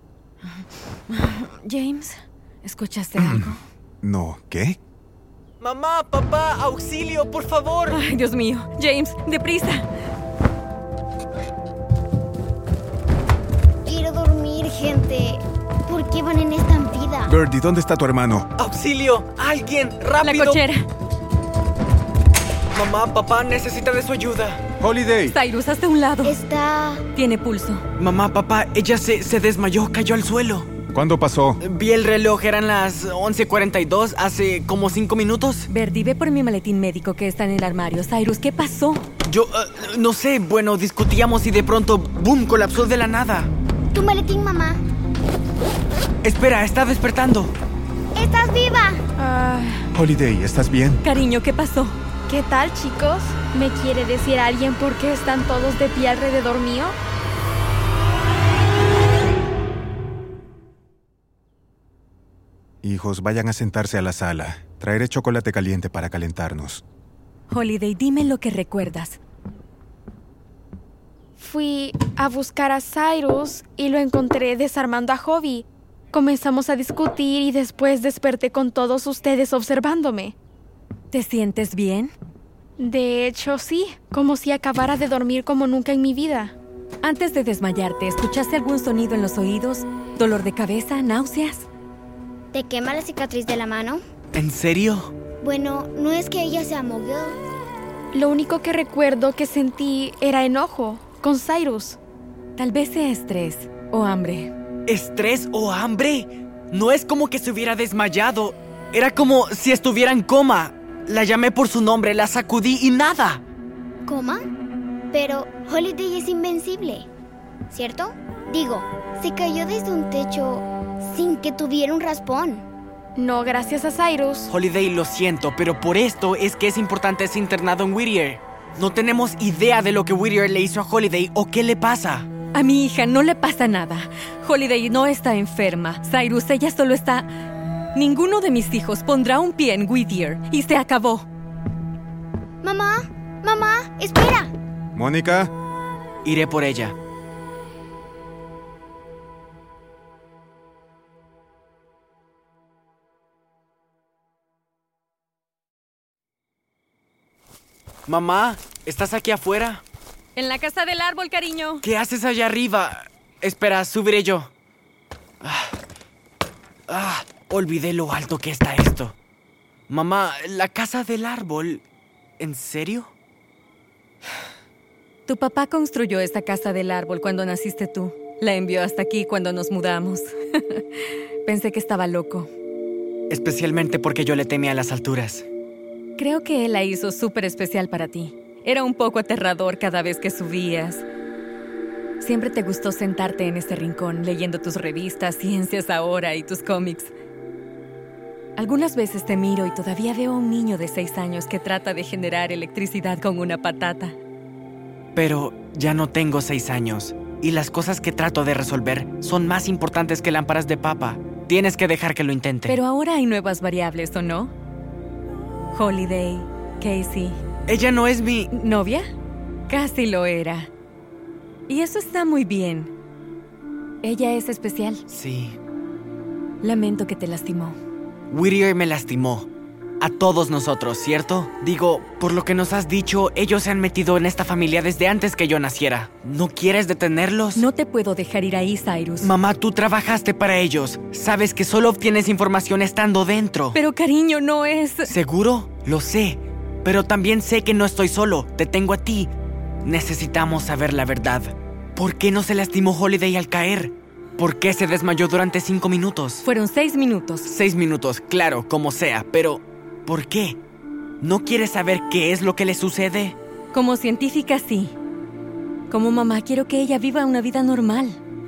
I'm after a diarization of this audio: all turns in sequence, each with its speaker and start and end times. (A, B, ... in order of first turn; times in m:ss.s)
0:01.1-0:03.6 A
0:04.0-0:04.8 B
0:05.6-0:08.0 C
0:07.9-0:09.8 A
0:13.8-0:17.3 D
0:17.3-0:18.5 B
0:18.6-0:20.6 C
0:20.2-0:20.8 A
0:22.7-0:24.6 C
0:24.8-0:25.3 B
0:25.3-0:26.4 A
0:26.2-0:27.0 D
0:27.1-0:27.8 A
0:28.0-0:30.7 C
0:30.9-0:31.6 B
0:31.6-0:35.7 C
0:35.7-0:39.0 A
0:39.2-0:43.5 C
0:43.9-0:44.8 D
0:46.2-0:47.5 C
0:48.1-0:49.1 D
0:49.2-0:49.8 E
0:49.9-0:51.0 B
0:51.0-0:52.0 A
0:52.3-0:57.0 E
1:02.8-1:06.8 B
1:07.5-1:09.2 A
1:11.4-1:20.3 E
1:21.1-1:22.1 A
1:22.8-1:26.6 E
1:27.0-1:31.7 A
1:32.5-1:34.0 D
1:34.3-1:35.1 C
1:35.4-1:37.4 D
1:38.1-1:42.0 E
1:42.6-1:44.5 A
1:44.9-1:53.4 C
1:54.0-1:54.5 D
1:55.1-1:57.1 D
1:57.7-2:02.7 D
2:03.2-2:04.5 E
2:04.5-2:12.3 C
2:12.5-2:17.3 A
2:17.9-2:21.3 A
2:22.6-2:24.5 D
2:25.0-2:25.5 B
2:26.2-2:26.9 C
2:38.1-2:39.8 C
2:40.4-2:41.8 A
2:41.8-2:44.5 C
2:45.4-2:45.8 C
2:46.9-2:49.2 C
2:49.9-2:51.8 C
2:52.4-2:53.1 C
2:55.3-3:00.8 A
3:01.4-3:02.5 A
3:03.3-3:05.5 C
3:06.2-3:11.0 A
3:12.2-3:17.1 A
3:18.6-3:24.2 A
3:25.1-3:32.8 C
3:32.7-3:34.5 A
3:35.7-3:37.4 A
3:37.7-3:38.5 C
3:38.5-3:39.0 A
3:39.7-3:40.7 A
3:41.7-3:42.9 A
3:44.0-3:45.0 A
3:45.1-3:45.6 C
3:46.6-3:47.8 A
3:48.3-3:57.7 C
3:57.5-3:59.3 A
3:59.2-4:03.8 C
4:03.7-4:05.1 A
4:05.1-4:09.3 C
4:09.8-4:16.4 C
4:16.4-4:17.5 A
4:17.4-4:20.6 C
4:21.2-4:23.4 C
4:23.7-4:24.9 A
4:25.9-4:28.2 A